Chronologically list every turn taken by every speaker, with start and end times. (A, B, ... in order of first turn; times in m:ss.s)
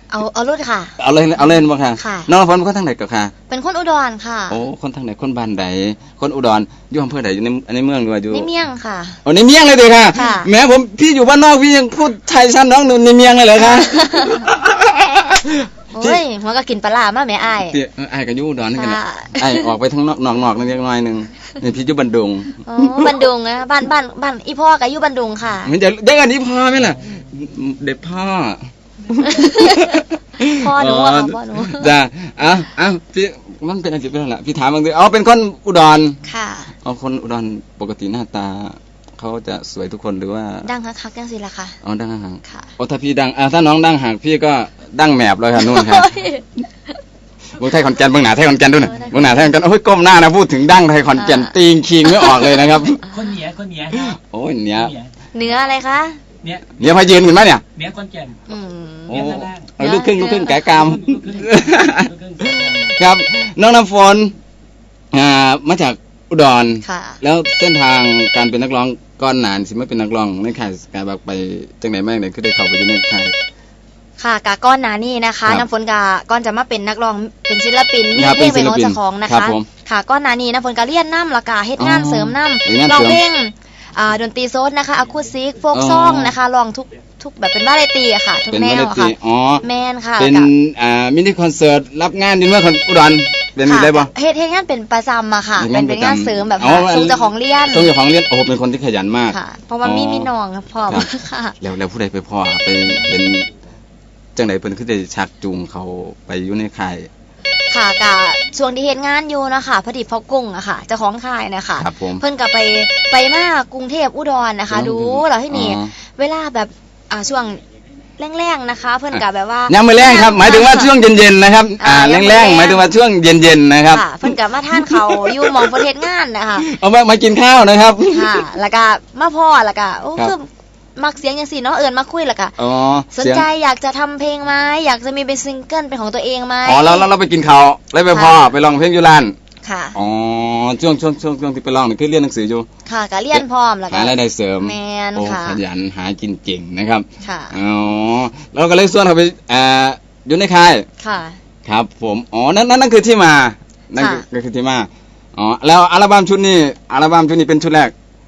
0:00.1-0:00.9 A
0:01.0-0:03.3 B
0:02.0-0:02.3 A
0:03.5-0:04.6 A
0:04.5-0:08.5 B
0:08.3-0:09.2 A
0:09.2-0:16.2 B
0:10.1-0:10.5 A
0:13.7-0:14.4 A
0:15.9-0:17.8 A
0:17.7-0:23.1 B
0:18.7-0:19.7 A
0:22.6-0:25.7 A
0:25.6-0:36.2 B
0:29.3-0:30.0 A
0:30.5-0:31.9 A
0:36.2-0:36.7 A
0:36.8-0:40.6 B
0:40.6-0:41.8 A
0:41.8-0:46.1 B
0:42.4-0:42.7 A
0:45.6-0:46.4 A
0:47.6-0:53.2 B
0:51.1-0:51.5 A
0:52.0-0:52.6 A
0:53.1-0:54.1 C
0:53.9-0:54.9 B
0:55.3-0:56.2 A
0:56.4-0:56.7 C
0:56.8-0:57.6 B
0:57.8-0:58.4 C
0:58.5-1:00.6 A
0:59.1-1:04.3 B
0:59.2-0:59.7 C
1:00.8-1:02.9 C
1:05.1-1:13.3 B
1:06.8-1:07.2 A
1:14.2-1:30.5 A
1:18.1-1:19.6 B
1:21.8-1:23.2 B
1:25.7-1:26.3 B
1:28.5-1:29.6 B
1:30.2-1:34.1 B
1:33.6-1:37.9 A
1:35.6-1:40.3 B
1:39.3-1:41.6 A
1:41.6-1:43.5 B
1:44.4-1:47.1 B
1:47.7-1:57.6 A
1:51.8-1:52.2 B
1:54.7-1:55.9 B
1:58.2-2:01.0 A
1:59.1-2:05.8 B
2:01.8-2:02.9 A
2:03.9-2:06.6 A
2:06.6-2:08.4 B
2:08.1-2:12.6 A
2:12.6-2:13.4 B
2:13.1-2:17.1 A
2:16.6-2:19.3 B
2:18.1-2:18.4 A
2:19.6-2:20.0 A
2:19.9-2:22.7 B
2:22.9-2:25.6 A
2:23.3-2:30.8 B
2:27.2-2:27.6 A
2:31.0-2:31.4 A
2:31.6-2:37.9 B
2:34.0-2:34.2 A